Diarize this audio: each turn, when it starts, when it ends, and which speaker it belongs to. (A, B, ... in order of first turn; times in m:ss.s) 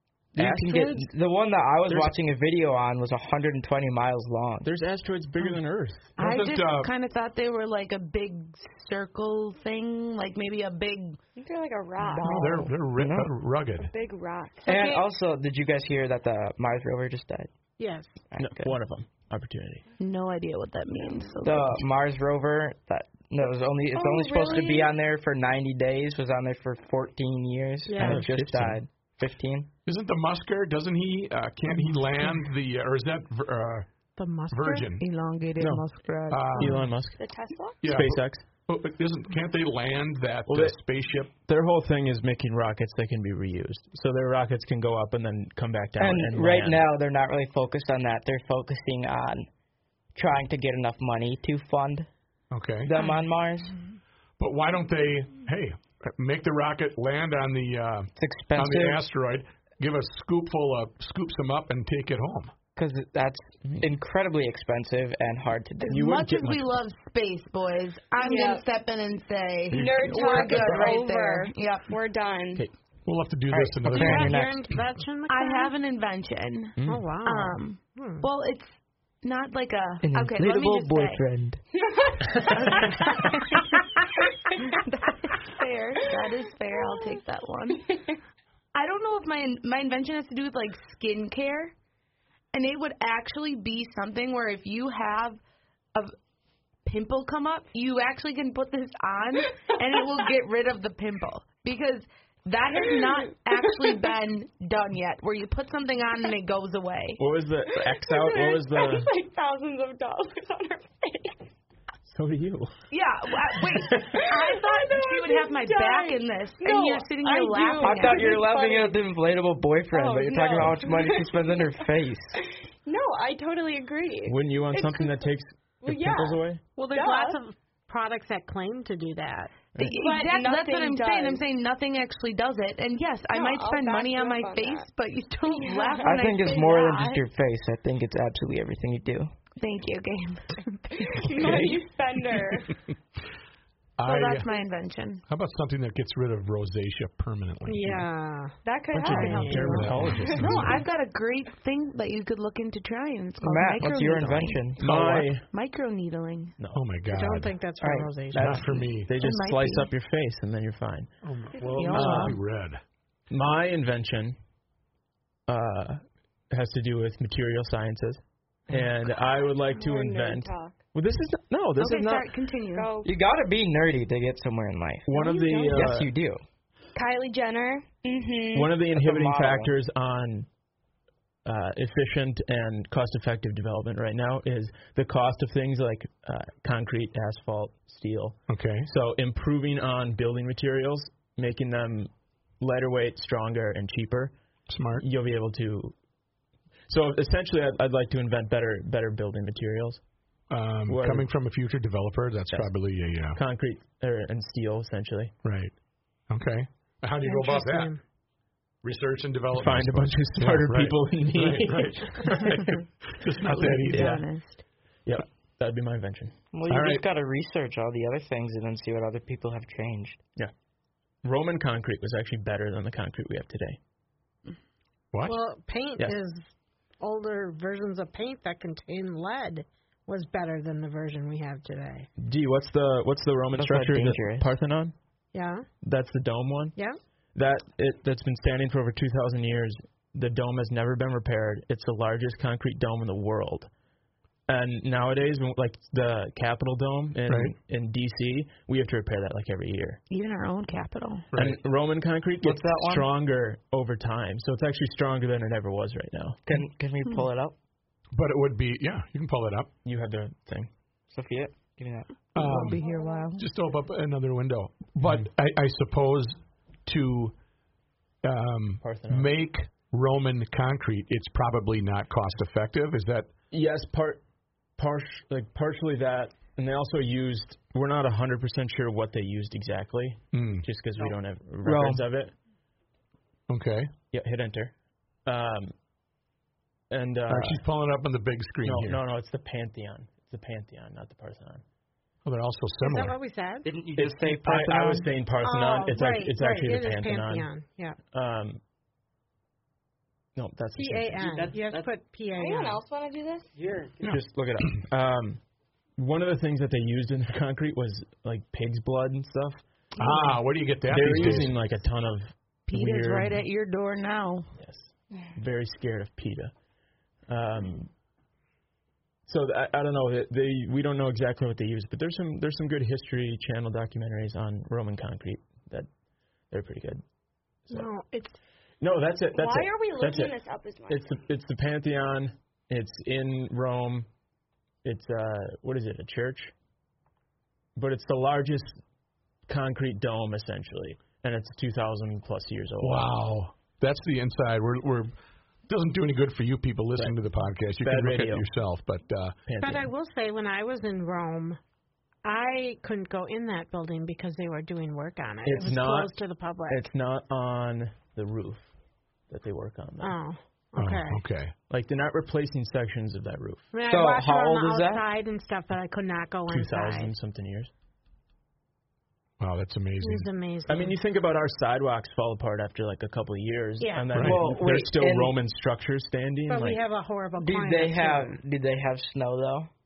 0:00.4-0:04.7 A
0:00.4-0:01.1 B
0:04.6-0:06.1 C
0:06.2-0:06.9 D
0:06.2-0:11.2 B
0:11.4-0:12.6 E
0:12.0-0:12.7 B
0:12.3-0:13.9 D
0:13.0-0:13.3 A
0:13.8-0:14.7 E
0:14.7-0:17.5 A
0:14.7-0:15.0 B
0:17.8-0:18.2 F
0:18.3-0:18.8 A
0:18.4-0:19.8 C
0:20.0-0:21.8 B
0:21.0-0:21.4 E
0:21.4-0:29.7 A
0:23.9-0:24.9 E
0:27.9-0:28.2 F
0:28.0-0:28.8 C
0:29.9-0:33.9 D
0:34.2-0:34.9 F
0:34.5-0:35.0 D
0:35.0-0:36.8 B
0:35.6-0:35.8 C
0:36.3-0:36.8 D
0:36.5-0:37.2 C
0:37.2-0:37.8 E
0:37.8-0:41.3 D
0:37.8-0:38.4 C
0:40.5-0:40.8 C
0:41.3-0:46.8 C
0:46.0-0:49.5 A
0:50.1-0:52.1 A
0:52.5-0:52.9 D
0:52.8-0:53.8 A
0:54.4-1:02.5 D
0:58.2-0:59.0 A
1:02.8-1:06.1 A
1:05.8-1:11.9 B
1:05.9-1:06.7 C
1:08.2-1:08.7 E
1:09.7-1:12.7 E
1:09.8-1:10.8 C
1:13.0-1:14.4 D
1:13.5-1:14.7 A
1:14.0-1:15.7 F
1:15.3-1:21.2 B
1:16.8-1:17.0 C
1:16.9-1:18.3 F
1:20.0-1:21.6 A
1:21.7-1:23.6 E
1:22.4-1:23.8 B
1:24.6-1:27.9 B
1:26.7-1:27.2 E
1:28.7-1:31.7 B
1:32.5-1:35.4 B
1:36.8-1:47.2 B
1:42.9-1:43.1 E
1:47.2-1:49.1 C
1:47.7-1:51.5 E
1:52.0-1:52.7 C
1:52.9-1:58.4 B
1:54.0-1:59.0 E
1:57.8-2:02.4 A
1:59.9-2:01.8 E
2:02.4-2:07.4 E
2:04.3-2:06.6 C
2:06.8-2:09.5 F
2:09.8-2:17.2 B
2:10.0-2:11.4 E
2:13.3-2:14.9 E
2:15.5-2:16.9 E
2:16.0-2:19.3 A
2:19.6-2:21.6 B
2:21.0-2:22.8 E
2:24.0-2:24.5 D
2:24.0-2:25.2 B
2:25.3-2:28.1 D
2:27.6-2:29.9 F
2:28.6-2:30.4 E
2:28.9-2:30.8 C
2:29.0-2:34.6 B
2:29.7-2:30.8 D
2:33.4-2:34.8 A
2:34.8-2:35.4 C
2:34.8-2:35.3 D
2:35.4-2:36.6 B
2:36.7-2:37.6 D
2:37.1-2:38.8 F
2:37.8-2:38.6 A
2:38.3-2:39.1 D
2:38.4-2:41.1 C
2:39.2-2:39.9 B
2:41.2-2:42.8 D
2:41.6-2:41.9 E
2:41.7-2:42.4 B
2:41.9-2:42.4 C
2:43.3-2:44.4 C
2:45.5-2:52.3 C
2:49.3-2:50.8 E
2:51.8-2:53.0 B
2:52.7-2:53.1 E
2:53.0-2:55.1 A
2:55.0-2:56.1 C
2:55.1-2:55.8 E
2:55.7-2:56.4 A
2:57.0-2:58.7 E
2:58.5-3:00.5 C
2:58.9-2:59.7 A
3:01.4-3:14.3 C
3:08.5-3:08.9 D
3:14.7-3:15.0 D
3:15.0-3:16.0 C
3:16.9-3:20.0 C
3:20.5-3:23.4 D
3:20.9-3:21.3 C
3:23.3-3:25.3 C
3:25.4-3:25.7 D
3:26.3-3:27.9 D
3:27.2-3:28.0 F
3:28.8-3:34.2 D
3:29.5-3:32.8 C
3:33.4-3:34.6 B
3:33.4-3:34.2 C
3:35.0-3:36.4 C
3:36.5-3:40.2 A
3:36.7-3:37.0 D
3:41.2-3:43.8 C
3:45.1-3:45.4 D
3:45.2-3:52.1 F
3:52.2-3:55.0 C
3:53.6-3:54.5 A
3:55.3-3:55.7 F
3:55.8-3:56.8 C
3:57.3-4:03.7 C
4:04.5-4:10.0 C
4:07.3-4:07.6 D
4:10.1-4:11.3 B
4:11.4-4:16.6 C
4:12.4-4:13.1 A
4:16.4-4:17.6 A
4:18.1-4:19.7 D
4:19.8-4:20.7 C
4:21.1-4:22.2 A
4:22.4-4:22.8 D
4:22.4-4:23.4 B
4:22.9-4:23.2 E
4:23.4-4:27.4 D
4:28.2-4:33.3 D
4:28.8-4:29.3 C
4:33.5-4:34.2 C
4:34.8-4:42.3 C
4:40.3-4:40.6 D
4:41.6-4:42.0 A
4:43.5-4:43.9 D
4:44.1-4:44.7 C
4:45.2-4:45.7 C
4:46.9-4:47.6 C
4:47.3-4:49.0 D
4:48.6-4:51.6 C
4:52.2-4:53.2 D
4:52.8-4:53.7 F
4:53.6-4:55.1 A
4:54.0-4:57.5 C
4:55.4-4:58.0 F
4:58.1-4:58.6 C
5:00.4-5:01.6 C
5:00.7-5:02.8 F
5:01.4-5:01.9 A
5:02.4-5:03.5 E
5:03.6-5:04.3 A
5:04.0-5:04.8 D
5:04.0-5:05.4 C
5:06.0-5:09.6 C
5:10.0-5:11.6 D
5:10.9-5:13.4 C
5:12.7-5:14.5 B
5:14.6-5:16.5 C
5:17.3-5:17.9 C
5:19.3-5:25.9 C
5:26.5-5:27.0 C
5:27.7-5:28.4 F
5:28.8-5:30.4 C
5:29.3-5:31.0 E
5:30.9-5:34.1 C
5:34.8-5:36.5 C
5:37.8-5:38.8 C
5:39.5-5:43.1 C
5:42.8-5:45.1 D
5:45.7-5:49.4 D
5:47.8-5:48.4 C
5:49.5-5:49.9 C
5:49.6-5:51.6 F
5:52.2-5:56.8 F
5:55.4-5:56.1 C
5:56.7-5:58.7 C
5:59.3-6:00.2 C
6:00.0-6:01.2 F
6:00.8-6:01.6 D
6:01.7-6:03.7 C
6:03.7-6:07.1 F
6:03.8-6:05.1 A
6:06.5-6:07.7 C
6:09.4-6:10.3 D
6:10.0-6:11.0 F
6:10.7-6:16.8 C
6:13.8-6:14.0 F
6:14.1-6:14.4 D
6:14.2-6:15.4 A
6:16.5-6:18.4 F
6:17.4-6:19.7 A